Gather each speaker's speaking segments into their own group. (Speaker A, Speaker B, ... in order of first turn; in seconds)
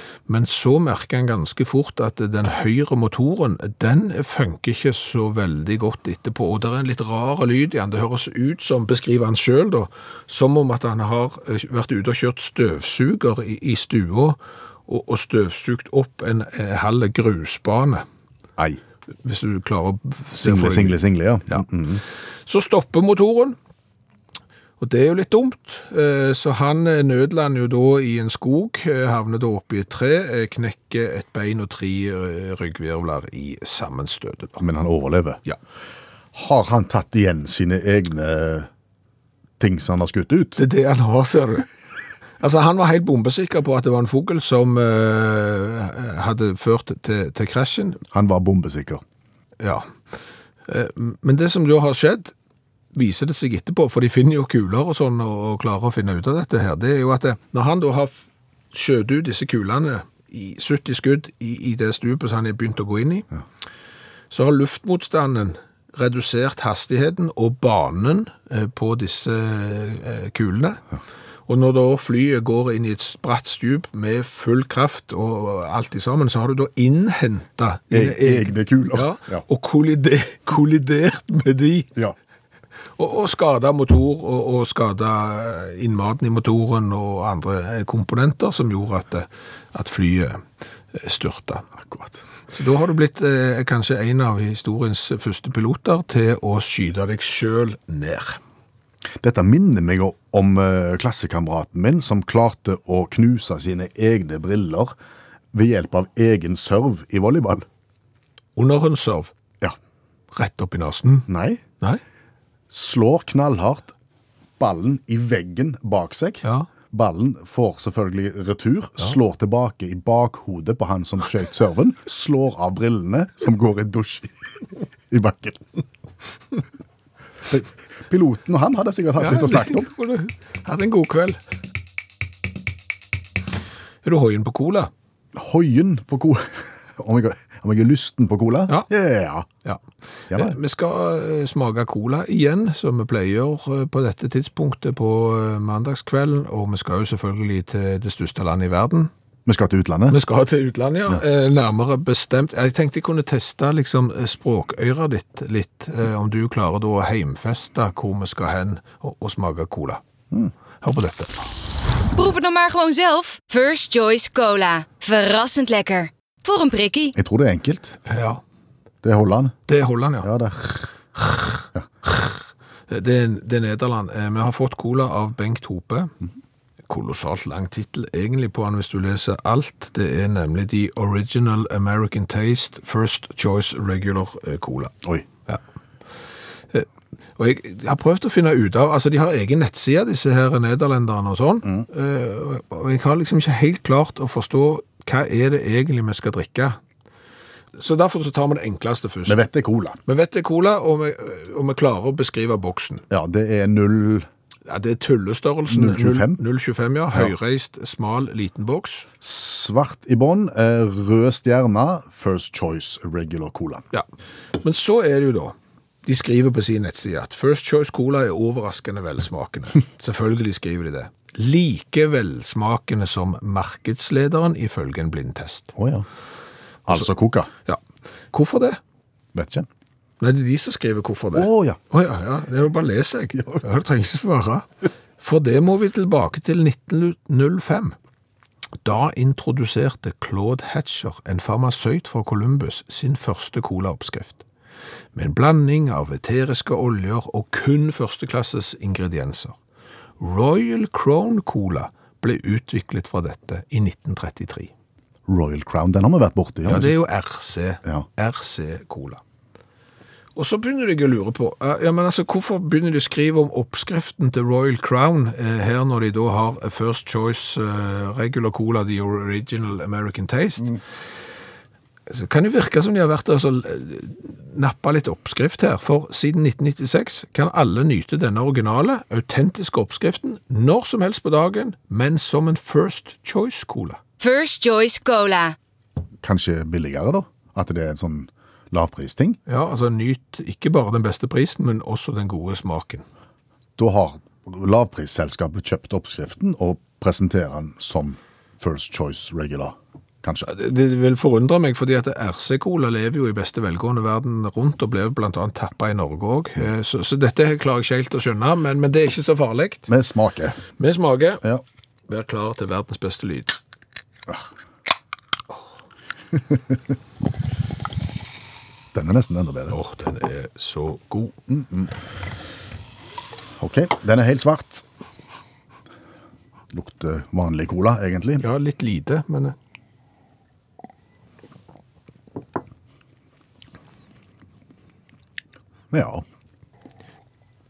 Speaker A: 0.3-18.1, 19.2-21.0, 22.5-23.6, 24.8-34.6, 40.6-41.7, 42.4-48.0, 49.6-49.9, 50.7-52.3, 52.9-58.2, 58.7-63.3, 64.3-70.8, 71.5-81.9, 83.0-91.7, 92.5-98.4, 108.6-109.3, 110.3-111.3, 129.2-131.4, 134.0-134.9, 139.7-149.1, 150.1-160.0, 160.8-161.4, 168.1-168.4, 169.7-170.3, 171.2-176.1, 176.9-184.9, 186.7-196.8, 197.8-199.4, 200.1-203.0, 204.7-209.1, 214.6-215.5, 216.1-225.7, 228.3-228.8, 230.2-234.7, 235.2-237.9, 238.8-244.4, 245.2-249.6, 250.2-254.7, 256.7-259.2, 260.4-270.8, 272.1-284.0, 289.5-293.0, 300.4-309.9, 310.8-311.4, 312.1-313.6, 319.7-321.4, 328.4-329.6
Speaker B: 20.3-22.0, 34.6-35.4, 36.3-38.7, 39.6-40.6, 48.1-49.0, 77.9-79.5, 91.8-92.2, 99.2-104.9, 105.5-107.7, 111.3-111.6, 112.7-113.9, 114.6-124.3, 125.1-125.6, 127.5-129.9, 135.3-139.5, 140.3-140.6, 149.5-150.2, 167.2-168.0, 169.0-169.6, 170.2-170.9, 199.3-200.0, 203.1-204.3, 205.7-206.4, 209.2-213.8, 225.8-226.1, 226.9-227.5, 229.3-229.7, 231.3-231.8, 255.3-256.9, 286.2-289.4, 293.8-300.5, 309.9-310.6, 316.3-316.8, 318.9-319.8, 321.5-321.9, 323.6-324.9, 326.7-328.4, 335.9-336.2
Speaker C: 162.1-167.2, 284.2-285.6